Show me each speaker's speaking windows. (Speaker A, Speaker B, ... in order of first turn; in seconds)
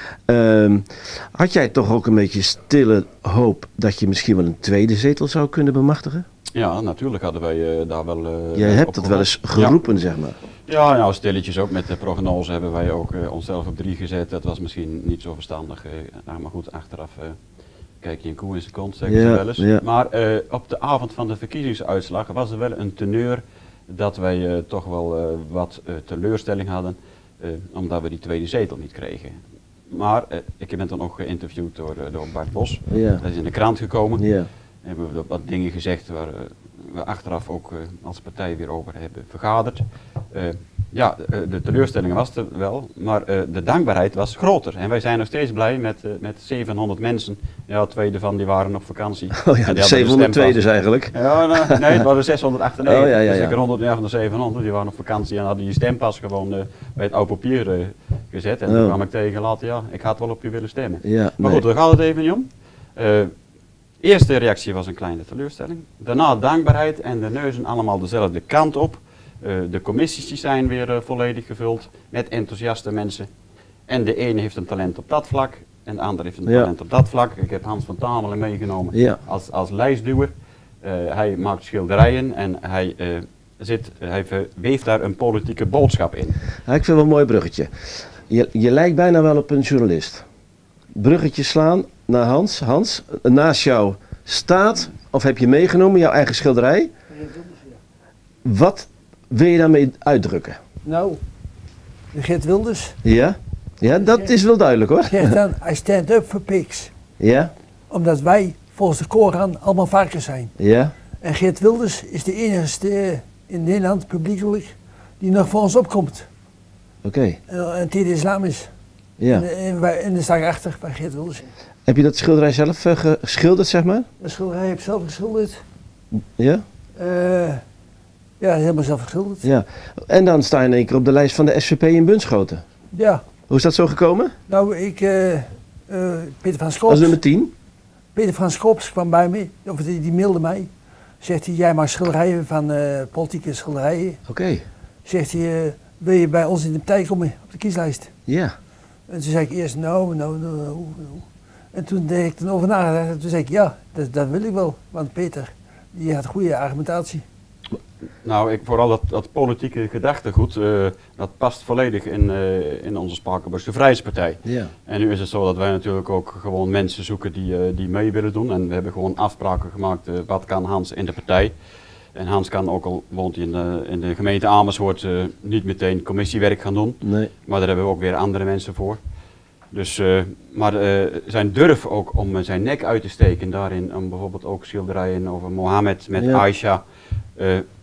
Speaker A: 0.2-6.2, 8.5-10.4, 19.1-19.8, 32.9-33.2, 34.2-34.5, 49.4-52.0, 52.8-53.6, 58.7-59.0, 61.0-61.6, 78.9-79.2, 86.7-90.2, 90.9-96.9, 98.4-100.6, 103.0-105.4, 107.2-107.5, 110.6-110.9, 117.0-117.4, 119.2-119.4, 121.9-124.1, 126.1-126.6, 129.4-132.6, 133.5-134.3, 136.9-137.5, 144.3-144.6, 148.3-148.5, 164.4-164.7, 177.0-177.3, 186.2-186.4
Speaker B: 6.5-9.8, 10.7-17.4, 18.0-34.2, 34.8-50.6, 51.1-63.3, 64.0-73.3, 73.9-80.3, 80.8-86.4, 158.2-171.5, 172.1-179.0, 179.7-186.8, 187.4-187.7
Speaker C: 97.1-97.8, 100.8-101.2, 102.1-103.0, 105.0-106.9, 107.9-110.5, 111.2-116.3, 117.5-118.7, 119.3-121.4, 124.2-125.6, 127.0-127.6, 128.4-129.4, 132.9-133.2, 134.5-137.2, 138.1-140.7, 141.2-144.2, 145.0-148.1, 149.1-157.2